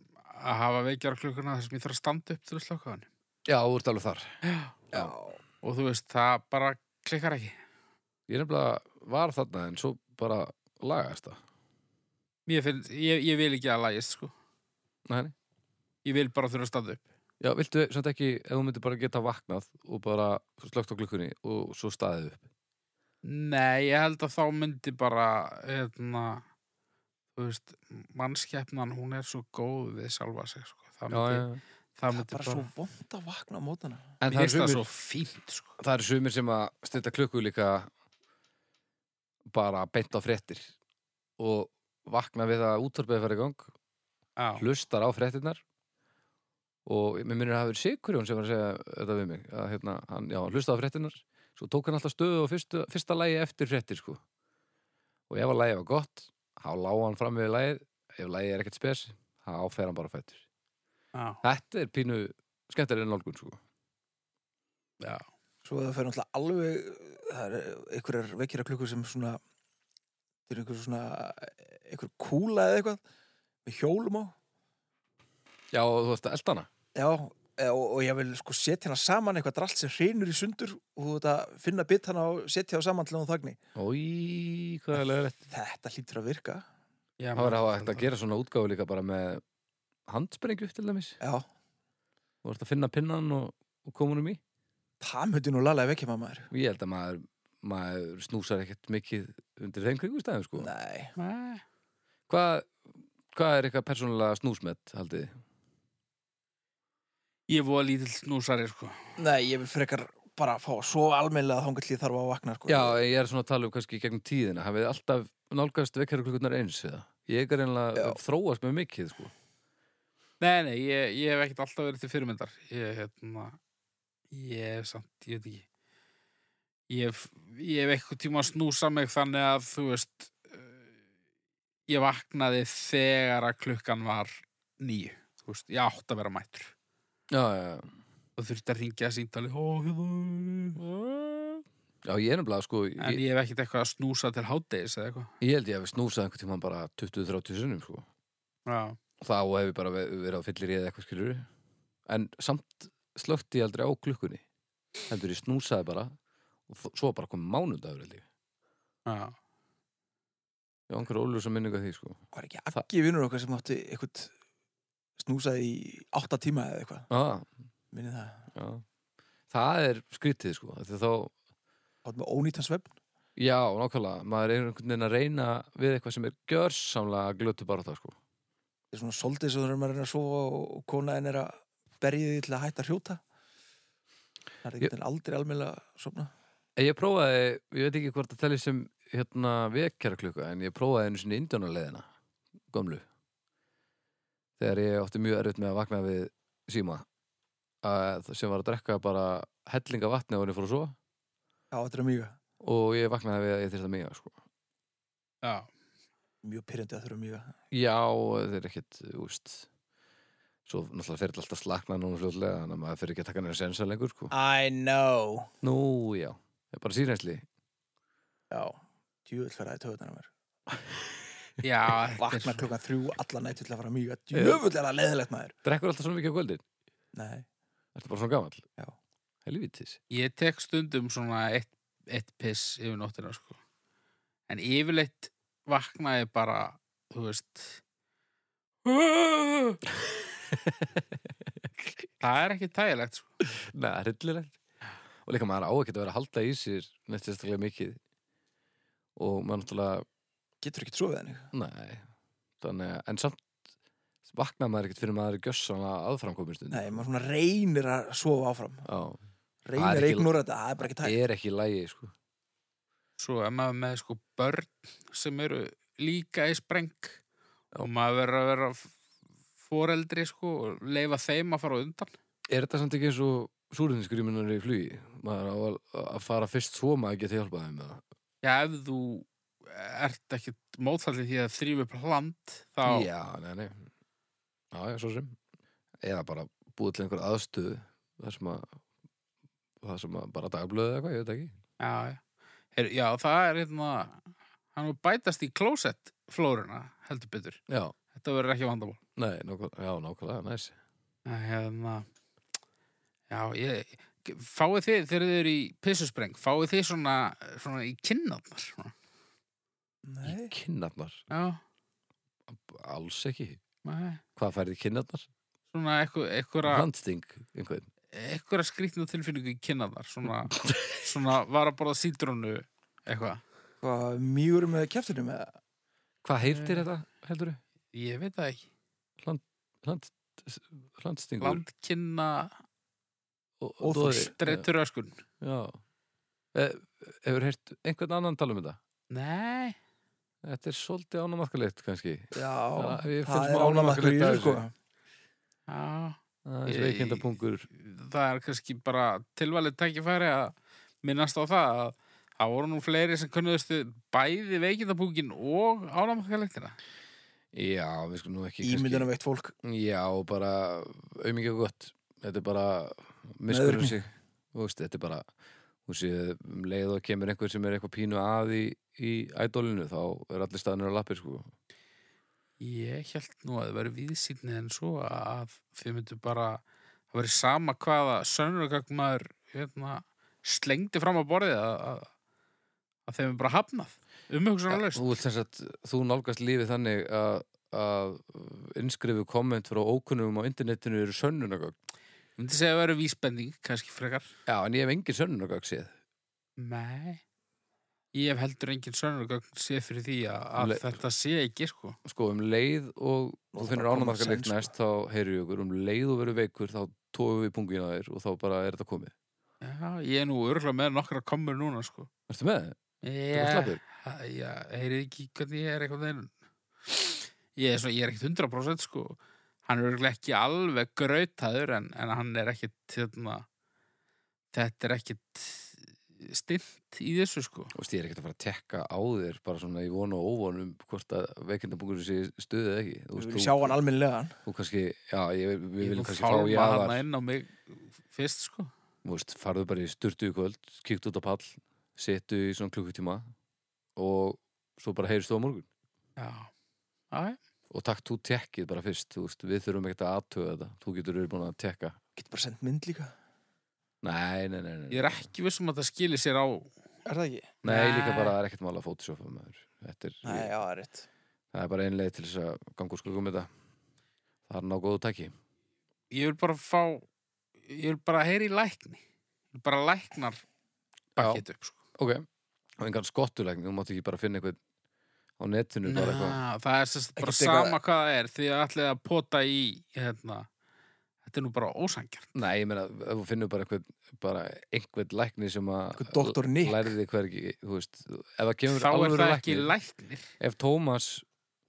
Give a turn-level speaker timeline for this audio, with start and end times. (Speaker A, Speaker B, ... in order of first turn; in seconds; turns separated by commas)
Speaker A: 0.3-3.1, Speaker B: 3.5-4.4, Speaker A: 4.4-4.8, Speaker C: 4.9-5.4, Speaker A: 5.6-7.6, Speaker B: 8.3-11.4, Speaker A: 12.5-14.3, Speaker B: 15.1-15.3, Speaker A: 16.1-17.1, Speaker B: 17.4-22.4, Speaker A: 23.2-26.4, Speaker A: 27.4-32.7, Speaker B: 31.1-31.6, Speaker C: 32.1-34.2, Speaker B: 34.2-34.9, Speaker A: 34.3-35.8, Speaker B: 35.8-37.9, Speaker B: 39.5-40.7, Speaker B: 41.4-43.7, Speaker A: 44.4-44.6, Speaker B: 44.6-45.6, Speaker B: 46.9-54.2, Speaker B: 55.3-60.4, Speaker A: 61.1-61.4, Speaker B: 61.4-63.6, Speaker A: 65.0-65.3, Speaker C: 65.6-69.4, Speaker C: 70.5-73.0, Speaker C: 73.7-74.3, Speaker B: 75.7-76.7, Speaker C: 76.9-83.6, Speaker B: 83.8-85.4, Speaker C: 85.0-86.6, Speaker A: 87.2-88.1, Speaker B: 87.4-89.4, Speaker B: 90.1-91.2, Speaker C: 91.2-91.5, Speaker B: 92.4-94.4, Speaker C: 95.0-96.5, Speaker B: 96.5-100.7, Speaker C: 100.6-101.1, Speaker A: 101.2-101.6, Speaker B: 102.3-102.8, Speaker B: 103.3-105.4, Speaker A: 107.5-109.0, Speaker C: 109.2-113.0, Speaker B: 112.7-119.3, Speaker A: 120.4-123.6, Speaker A: 124.3-125.7, Speaker A: 126.9-130.8, Speaker A: 131.9-136.7, Speaker B: 137.3-137.9, Speaker A: 138.4-140.8, Speaker B: 140.8-143.2, Speaker A: 143.0-145.3, Speaker B: 145.4-148.1, Speaker A: 148.7-149.0, Speaker B: 149.2-151.5, Speaker B: 152.1-154.4, Speaker B: 155.1-156.2, Speaker B: 156.7-158.2, Speaker A: 159.1-159.4, Speaker B: 160.9-162.2, Speaker C: 162.3-164.3, Speaker C: 165.2-167.1, Speaker B: 167.1-167.5, Speaker C: 167.9-168.5, Speaker B: 168.6-168.8, Speaker B: 169.5-171.3, Speaker C: 172.1-173.0, Speaker B: 173.4-178.2, Speaker C: 178.9-183.2, Speaker C: 184.6-186.3, Speaker B: 186.8-192.1, Speaker B: 192.7-193.1, Speaker B: 194.6-197.1, Speaker B: 197.8-201.0, Speaker C: 201.7-202.4, Speaker B: 202.6-204.3, Speaker A: 205.4-205.7, Speaker C: 206.4-207.5, Speaker B: 207.7-209.7, Speaker B: 210.7-214.3, Speaker C: 214.3-215.5, Speaker B: 215.6-217.4, Speaker C: 218.5-220.3, Speaker A: 221.6-222.7, Speaker C: 222.2-225.5, Speaker B: 224.3-224.6, Speaker B: 225.6-226.6, Speaker C: 227.1-227.5, Speaker B: 227.9-228.7, Speaker B: 229.4-230.0, Speaker A: 230.1-233.6, Speaker A: 234.5-237.8, Speaker A: 238.8-239.8, Speaker B: 240.5-241.0, Speaker A: 242.2-243.3, Speaker B: 243.6-244.6, Speaker B: 245.3-248.0, Speaker B: 249.2-250.1, Speaker C: 250.6-251.5, Speaker B: 251.5-252.1, Speaker B: 252.6-253.4, Speaker B: 254.3-257.0, Speaker C: 256.7-258.9, Speaker B: 258.9-259.2, Speaker C: 259.6-261.2, Speaker B: 259.8-260.3, Speaker B: 260.8-262.1, Speaker A: 263.2-267.2, Speaker A: 267.8-268.9, Speaker A: 269.6-272.1, Speaker B: 272.5-278.0, Speaker A: 278.4-283.1, Speaker B: 282.9-283.9, Speaker B: 284.7-285.4, Speaker B: 286.0-288.8, Speaker B: 289.8-291.6, Speaker A: 291.8-292.2, Speaker A: 292.8-297.6, Speaker B: 297.7-297.9, Speaker A: 298.1-299.0, Speaker B: 299.2-300.8, Speaker A: 301.3-302.1, Speaker A: 303.3-308.9, Speaker C: 310.1-310.5, Speaker B: 310.2-311.2, Speaker A: 311.3-311.6, Speaker B: 312.5-313.6, Speaker A: 313.8-314.2, Speaker B: 314.4-315.3, Speaker A: 315.7-316.9, Speaker B: 316.6-317.9, Speaker A: 318.1-323.4, Speaker B: 320.3-320.9, Speaker C: 323.8-325.6, Speaker B: 326.2-327.6, Speaker A: 326.4-326.9, Speaker A: 327.9-328.7, Speaker B: 329.2-331.6, Speaker A: 331.4-332.6, Speaker B: 333.6-334.7, Speaker C: 333.8-334.3, Speaker A: 334.1-335.2, Speaker B: 335.4-335.8, Speaker B: 336.5-338.8, Speaker A: 339.1-339.8, Speaker B: 340.4-344.6, Speaker C: 342.3-344.7, Speaker A: 345.7-356.8, Speaker B: 346.4-347.7, Speaker B: 357.5-359.1, Speaker C: 358.6-359.5, Speaker B: 359.6-365.3, Speaker C: 363.5-364.0, Speaker B: 365.9-371.5, Speaker A: 372.6-376.6, Speaker A: 377.1-382.1, Speaker A: 383.1-385.1, Speaker B: 384.7-391.8, Speaker A: 392.4-394.3, Speaker B: 394.5-395.9, Speaker A: 396.6-397.2, Speaker A: 398.1-402.0, Speaker B: 400.6-400.9, Speaker B: 402.1-409.1, Speaker C: 403.5-404.7, Speaker A: 409.6-412.1, Speaker B: 412.3-412.8, Speaker A: 413.0-416.3, Speaker B: 413.3-413.8, Speaker A: 416.9-423.5, Speaker A: 424.5-427.7, Speaker B: 427.7-433.8, Speaker C: 433.2-434.4, Speaker B: 434.5-437.0, Speaker A: 435.8-438.7, Speaker B: 439.0-443.3, Speaker B: 444.0-445.7, Speaker A: 446.2-446.5, Speaker A: 447.1-447.4, Speaker B: 447.7-452.0, Speaker C: 452.2-453.1, Speaker B: 454.0-455.3, Speaker A: 454.9-456.8, Speaker C: 457.1-457.5, Speaker A: 457.6-458.4, Speaker B: 457.6-460.5, Speaker C: 460.2-461.1, Speaker B: 461.5-463.5, Speaker B: 464.5-465.3, Speaker A: 466.1-467.1, Speaker A: 467.7-469.0, Speaker A: 469.5-470.4, Speaker A: 471.1-471.8, Speaker B: 471.2-471.4, Speaker B: 472.0-472.3, Speaker B: 472.8-474.6, Speaker B: 475.4-476.4, Speaker A: 475.9-480.5, Speaker C: 477.2-477.8, Speaker A: 481.2-482.3, Speaker B: 482.3-489.7, Speaker C: 485.9-486.9, Speaker A: 488.7-490.3, Speaker B: 490.4-491.2